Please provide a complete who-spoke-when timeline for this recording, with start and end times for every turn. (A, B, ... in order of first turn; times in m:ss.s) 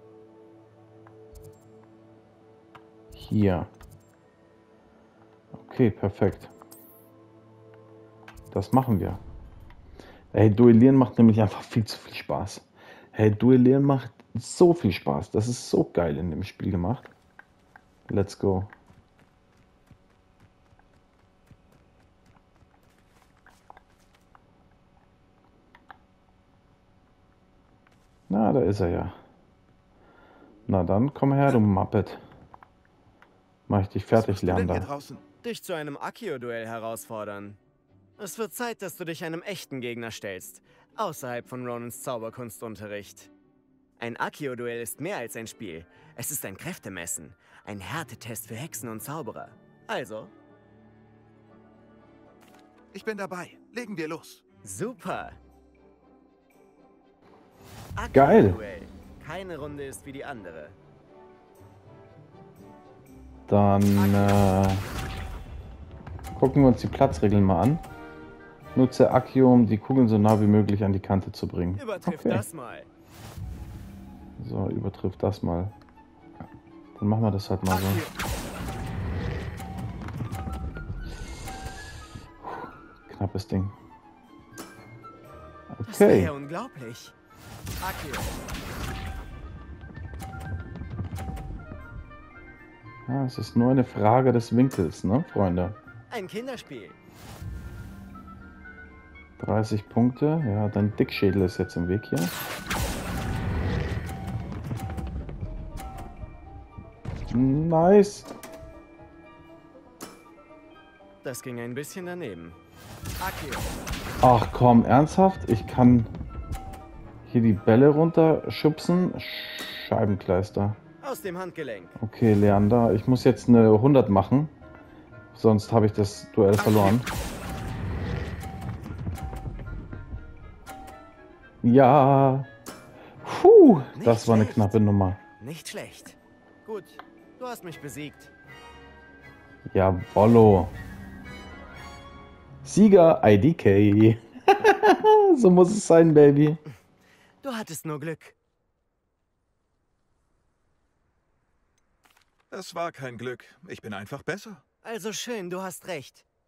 0:03.1-0:03.7 A
0:05.5-0:06.5 A
0:08.5-0:09.2 A
0:10.3-0:17.1 A
0:18.1-0:18.7 A
0:28.3-0:29.2 A
0:30.7-0:32.2 A
0:33.7-0:34.9 A
0:34.1-0:35.2 B
0:35.4-0:37.6 C
0:38.2-0:43.3 C
0:44.0-0:50.3 C
0:52.9-0:54.4 B
0:54.6-0:55.4 C
0:58.0-1:00.8 C
0:58.1-0:58.6 A
1:03.5-1:04.8 A
1:04.0-1:04.5 C
1:06.4-1:07.8 A
1:08.8-1:12.4 A
1:11.8-1:12.9 C
1:14.4-1:15.7 A
1:17.0-1:18.0 A
1:17.7-1:18.1 C
1:22.4-1:23.8 A
1:25.7-1:26.3 A
1:25.9-1:27.1 C
1:27.8-1:28.4 C
1:33.1-1:35.8 A
1:36.1-1:37.0 C
1:39.4-1:42.3 A
1:47.3-1:48.3 A
1:51.2-1:52.6 C
1:53.2-1:53.8 C
1:54.2-1:56.1 A
1:57.3-2:00.8 A
2:01.0-2:02.0 C
2:02.0-2:04.5 A
2:05.3-2:07.1 A
2:06.6-2:07.0 C
2:11.6-2:12.5 A
2:13.2-2:15.2 A
2:14.0-2:14.8 C
2:15.4-2:18.3 C
2:19.7-2:20.8 A
2:22.6-2:26.6 A
2:27.4-2:28.4 C
2:32.5-2:34.6 B
2:34.8-2:36.3 C